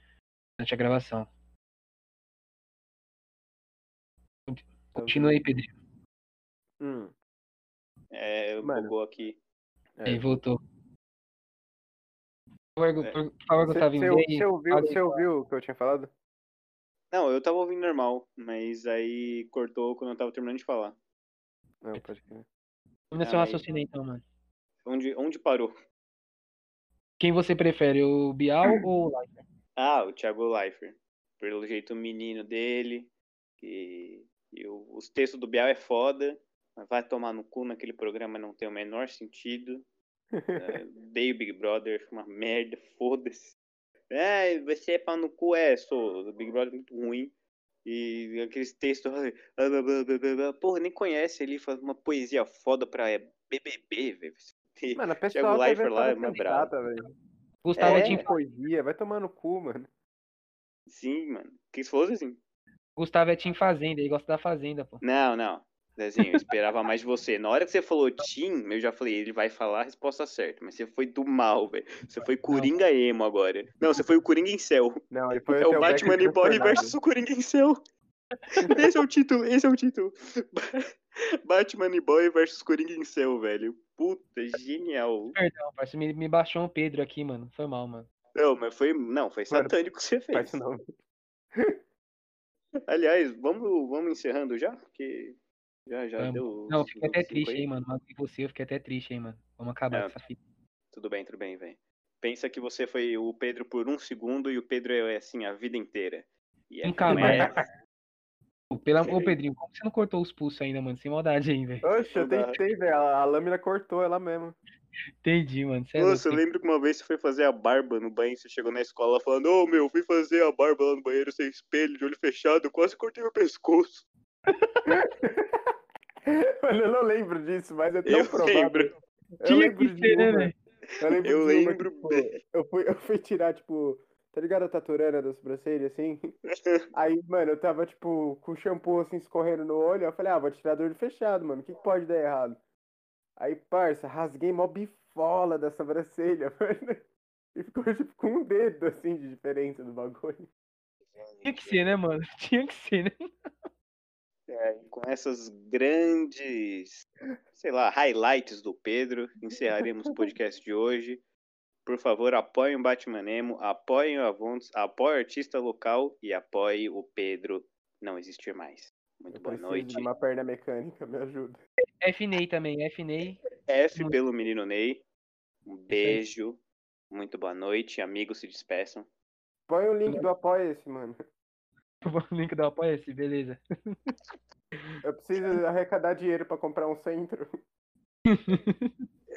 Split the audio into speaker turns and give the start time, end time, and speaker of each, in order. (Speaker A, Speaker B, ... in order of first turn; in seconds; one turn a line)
Speaker A: 0.6-1.3
Speaker A: 4.5-5.7
Speaker B: 5.0-5.4
Speaker B: 6.8-7.1
Speaker C: 8.1-9.4
Speaker B: 8.6-8.9
Speaker B: 10.0-10.2
Speaker A: 10.1-10.6
Speaker A: 12.8-15.2
Speaker B: 13.7-16.1
Speaker C: 17.1-21.0
Speaker B: 21.8-22.5
Speaker A: 23.1-24.2
Speaker C: 23.2-23.6
Speaker C: 24.9-25.7
Speaker A: 27.2-29.4
Speaker C: 29.8-39.9
Speaker B: 40.3-40.8
Speaker C: 40.6-43.5
Speaker C: 44.1-47.3
Speaker C: 47.9-56.7
Speaker B: 55.0-57.1
Speaker A: 57.6-58.3
Speaker C: 57.8-58.2
Speaker B: 57.8-59.9
Speaker C: 60.9-62.4
Speaker A: 63.0-65.0
Speaker C: 65.0-77.8
Speaker A: 72.5-72.7
Speaker B: 75.1-77.0
Speaker C: 78.5-85.4
Speaker A: 85.3-88.1
Speaker C: 88.3-90.6
Speaker B: 89.5-89.8
Speaker B: 90.3-90.8
Speaker C: 92.9-97.7
Speaker A: 96.2-100.4
Speaker C: 100.9-107.6
Speaker A: 106.8-107.6
Speaker B: 107.1-107.5
Speaker A: 108.7-111.9
Speaker C: 109.1-109.3
Speaker B: 111.8-114.6
Speaker C: 112.1-112.6
Speaker A: 115.2-116.4
Speaker C: 116.0-124.1
Speaker B: 124.9-125.6
Speaker B: 126.3-128.9
Speaker C: 128.1-128.9
Speaker B: 129.4-136.3
Speaker A: 129.4-130.6
Speaker C: 131.2-132.3
Speaker B: 136.9-142.6
Speaker B: 143.4-147.0
Speaker B: 147.6-150.5
Speaker C: 151.2-152.0
Speaker A: 151.4-153.3
Speaker C: 154.5-161.2
Speaker C: 161.8-170.1
Speaker B: 169.3-171.6
Speaker A: 172.0-173.4
Speaker C: 173.7-175.1
Speaker C: 175.7-179.1
Speaker A: 175.9-176.2
Speaker B: 179.7-181.2
Speaker A: 182.0-184.1
Speaker B: 185.0-187.6
Speaker A: 188.3-188.9